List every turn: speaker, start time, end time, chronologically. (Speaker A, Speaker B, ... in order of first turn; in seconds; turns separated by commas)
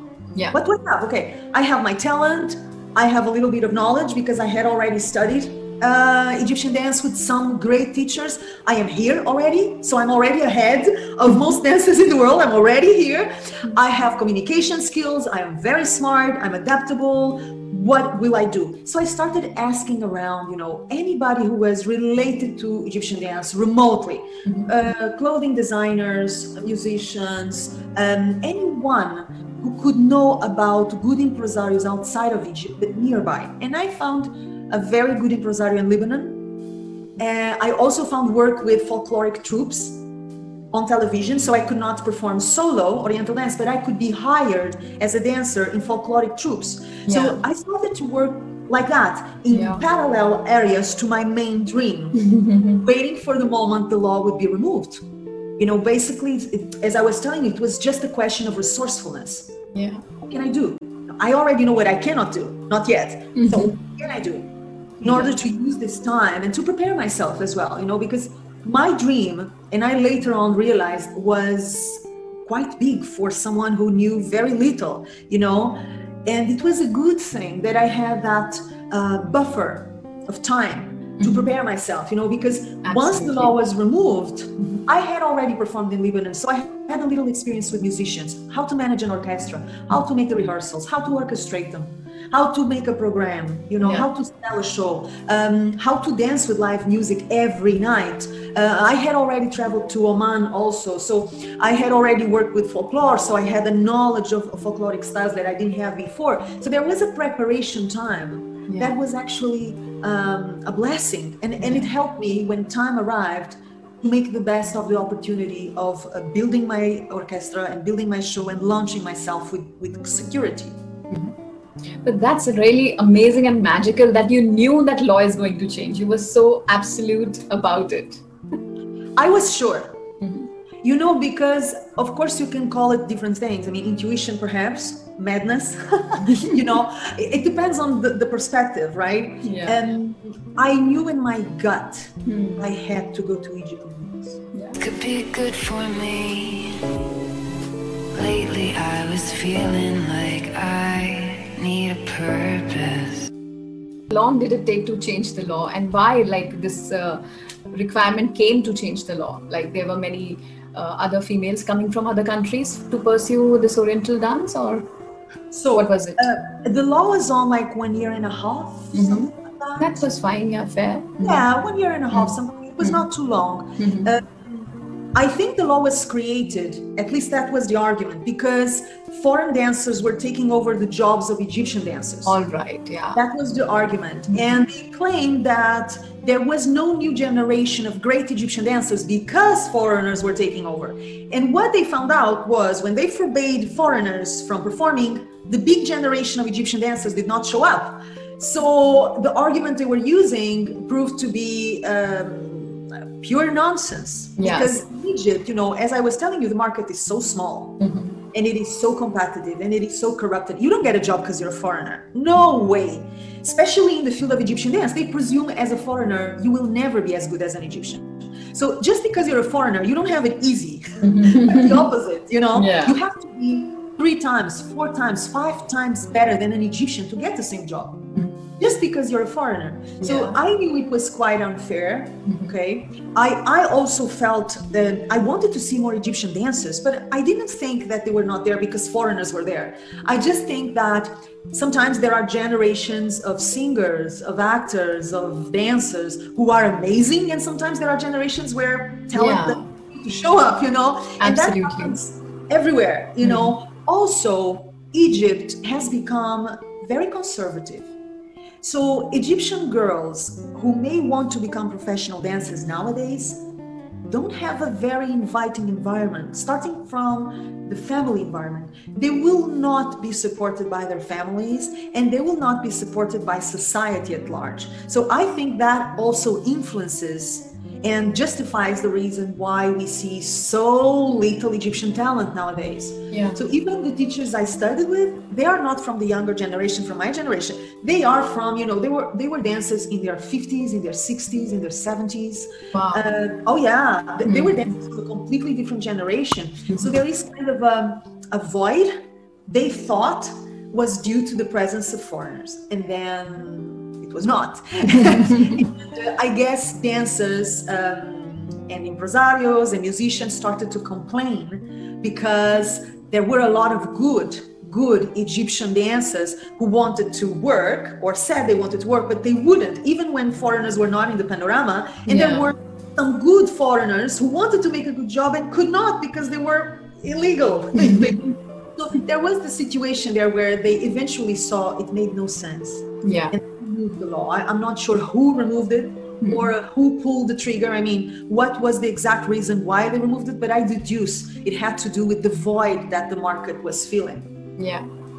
Speaker A: 0.5-36.4, Speaker A: 37.2-40.0, Speaker A: 40.7-52.2, Speaker B: 47.1-47.4, Speaker B: 49.5-49.8, Speaker B: 52.2-52.8, Speaker A: 52.8-55.0, Speaker A: 55.6-59.5, Speaker B: 59.7-60.0, Speaker A: 60.3-64.5, Speaker B: 63.4-63.7, Speaker B: 65.0-65.3, Speaker A: 65.0-120.8, Speaker B: 81.2-81.5, Speaker B: 82.8-83.5, Speaker B: 93.8-94.1, Speaker B: 108.7-109.0, Speaker B: 111.6-111.9, Speaker B: 122.0-128.2, Speaker A: 129.2-130.0, Speaker B: 130.2-130.5, Speaker A: 130.8-144.4, Speaker B: 136.2-136.6, Speaker B: 139.4-139.8, Speaker B: 142.3-142.6, Speaker B: 144.5-144.8, Speaker C: 144.8-146.8, Speaker C: 148.1-153.3, Speaker B: 154.1-157.2, Speaker B: 157.7-164.9, Speaker A: 165.5-170.0, Speaker B: 165.7-166.3, Speaker B: 168.9-171.4, Speaker A: 171.2-182.4, Speaker B: 172.1-173.0, Speaker B: 173.8-174.1, Speaker B: 182.3-183.2, Speaker A: 183.2-207.8, Speaker B: 184.3-184.6, Speaker B: 204.4-204.8, Speaker B: 207.8-208.2, Speaker A: 208.3-228.0, Speaker B: 221.0-221.9, Speaker B: 222.6-223.0, Speaker A: 228.6-257.9, Speaker B: 230.0-230.4, Speaker B: 232.3-232.5, Speaker B: 249.1-249.6, Speaker B: 251.2-252.0, Speaker B: 253.2-253.6, Speaker A: 258.6-263.4, Speaker A: 264.1-298.9, Speaker B: 283.1-283.4, Speaker B: 292.7-293.0, Speaker B: 294.2-294.6, Speaker A: 299.5-344.3, Speaker B: 305.0-305.5, Speaker B: 322.1-322.5, Speaker B: 327.8-328.3, Speaker B: 333.0-333.3, Speaker B: 336.2-336.5, Speaker B: 344.6-344.9